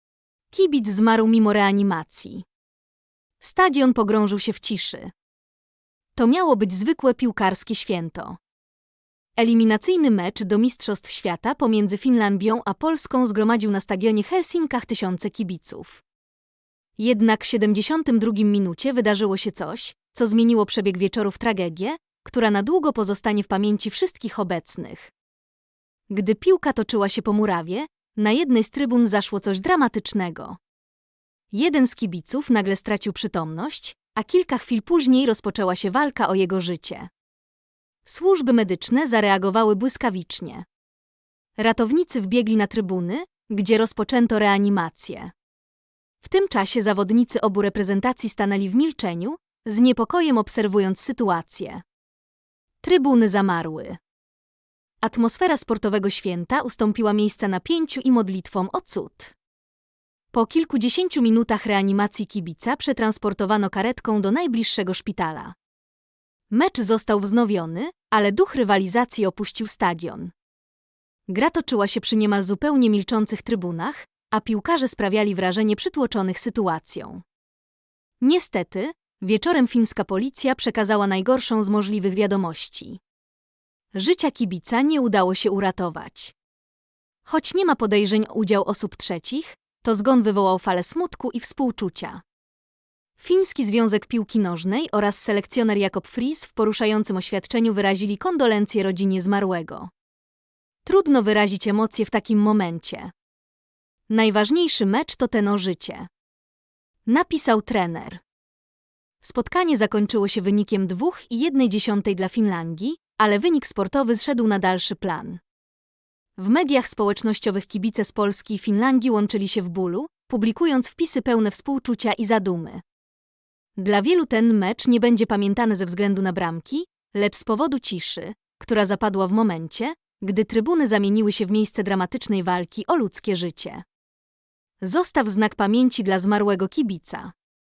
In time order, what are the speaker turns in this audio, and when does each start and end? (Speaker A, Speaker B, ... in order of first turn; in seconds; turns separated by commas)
Speaker A: 0.5-2.4, Speaker A: 3.4-5.1, Speaker A: 6.1-8.4, Speaker A: 9.3-16.0, Speaker A: 17.0-25.1, Speaker A: 26.1-30.6, Speaker A: 31.5-37.1, Speaker A: 38.0-40.6, Speaker A: 41.6-45.3, Speaker A: 46.2-51.8, Speaker A: 52.8-54.0, Speaker A: 55.0-59.3, Speaker A: 60.3-65.5, Speaker A: 66.5-70.3, Speaker A: 71.3-77.2, Speaker A: 78.2-83.0, Speaker A: 83.9-86.3, Speaker A: 87.2-92.2, Speaker A: 93.2-99.9, Speaker A: 100.8-103.1, Speaker A: 104.1-106.1, Speaker A: 107.0-108.2, Speaker A: 109.2-115.4, Speaker A: 116.4-122.8, Speaker A: 123.8-133.8, Speaker A: 134.8-137.3